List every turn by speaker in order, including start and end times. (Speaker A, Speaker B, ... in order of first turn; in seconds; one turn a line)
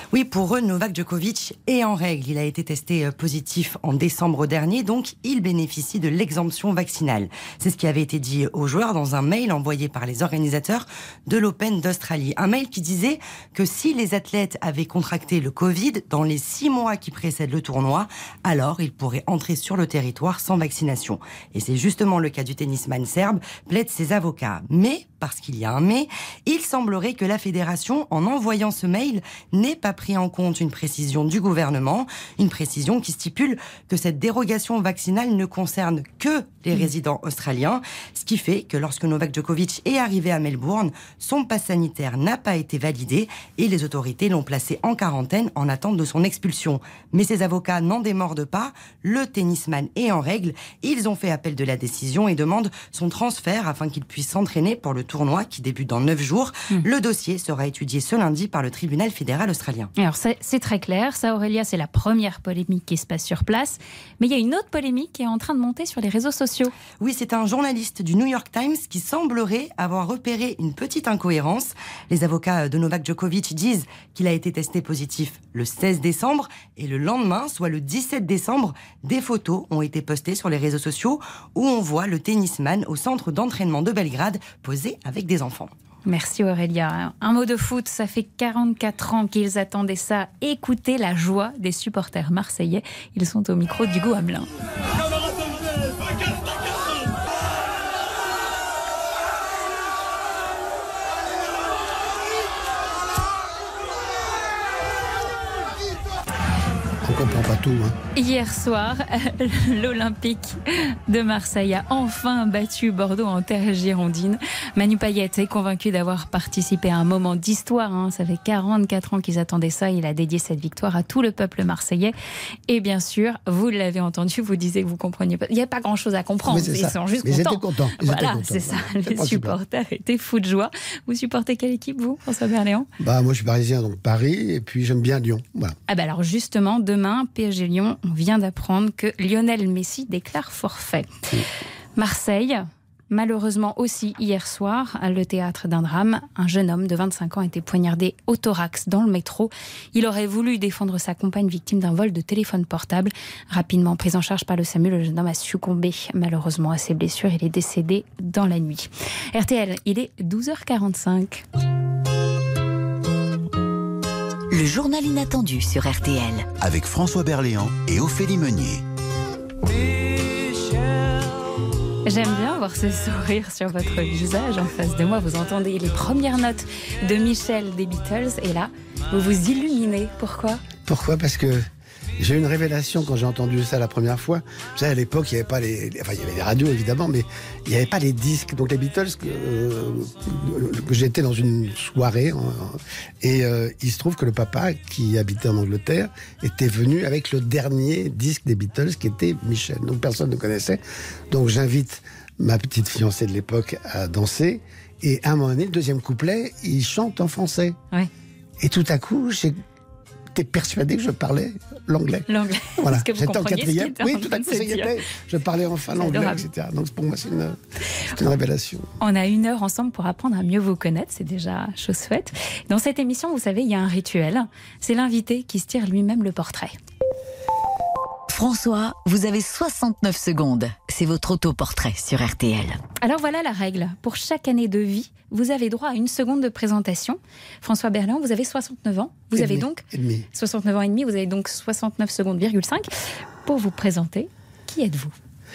Speaker A: 0.1-59.9
Speaker B: 60.0-66.7
Speaker A: 67.0-85.7
Speaker B: 86.1-94.5
Speaker C: 107.0-108.0
Speaker B: 108.1-122.1
Speaker B: 122.7-132.9
Speaker C: 126.4-129.6
Speaker C: 133.0-135.8
Speaker B: 135.9-141.2
Speaker B: 141.9-161.4
Speaker D: 164.5-166.5
Speaker E: 166.6-168.8
Speaker B: 172.1-180.6
Speaker C: 180.8-181.6
Speaker C: 182.2-207.8
Speaker C: 208.6-209.6
Speaker C: 210.3-212.3
Speaker B: 212.3-214.9
Speaker C: 212.8-217.6
Speaker B: 215.9-216.4
Speaker C: 218.1-218.9
Speaker B: 219.0-226.7
Speaker D: 228.3-232.8
Speaker B: 233.0-242.9
Speaker C: 239.3-240.3
Speaker B: 243.4-245.1